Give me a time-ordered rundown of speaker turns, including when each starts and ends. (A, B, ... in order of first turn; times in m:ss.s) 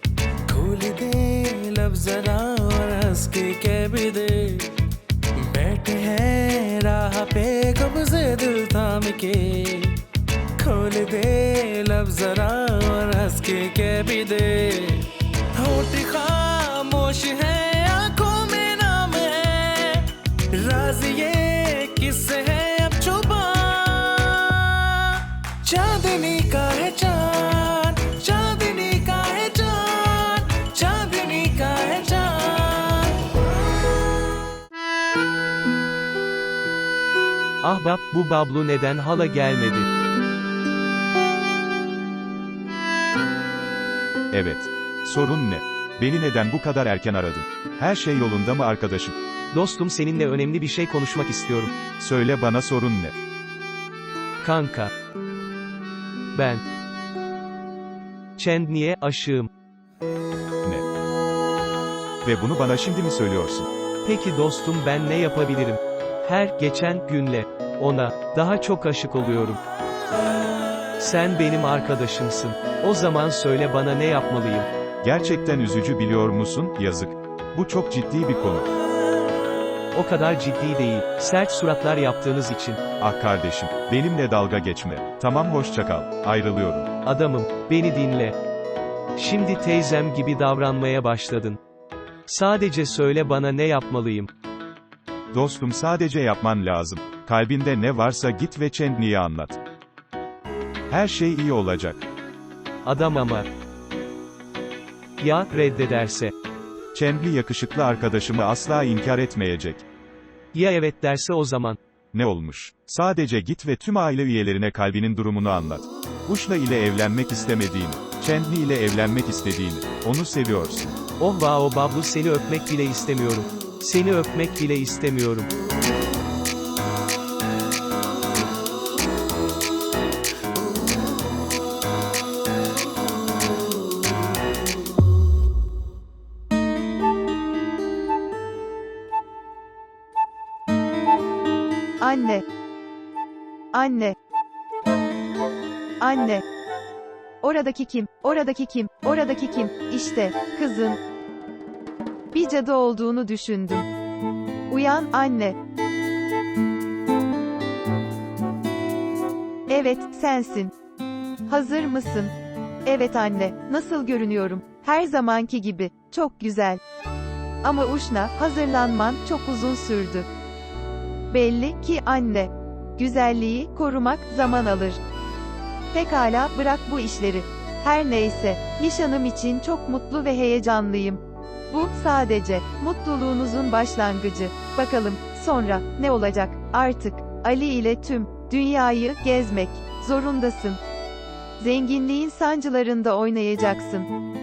0:00.5-0:04.7 A
0:05.3-0:10.0 A
0:10.6-0:33.2 A
0:37.6-0:39.9 B
0:44.3-0:49.1 C
0:49.5-0:51.7 B
0:52.0-0:53.1 C
0:54.4-0:54.9 B
0:56.3-0:56.6 B
0:58.4-0:59.5 B
1:02.2-1:03.7 C
1:04.0-1:09.6 B
1:11.0-1:14.7 B
1:15.0-1:18.7 C
1:19.9-1:22.8 B
1:23.0-1:26.9 C
1:27.0-1:28.3 B
1:29.2-1:31.6 B
1:32.3-1:34.3 B
1:35.3-1:39.6 C
1:40.9-1:42.0 C
1:42.8-1:43.4 B
1:45.2-1:46.3 B
1:46.9-1:49.8 C
1:50.5-1:51.8 B
1:52.1-2:01.0 C
2:01.2-2:05.5 B
2:22.0-2:22.4 D
2:23.7-2:24.2 D
2:26.0-2:26.4 D
2:27.4-2:31.0 D
2:32.3-2:33.9 D
2:34.7-2:35.6 D
2:39.7-2:40.7 D
2:41.5-2:46.8 D
2:47.6-2:50.3 D
2:51.3-2:55.0 D
2:55.9-3:10.8 D
3:11.6-3:14.1 D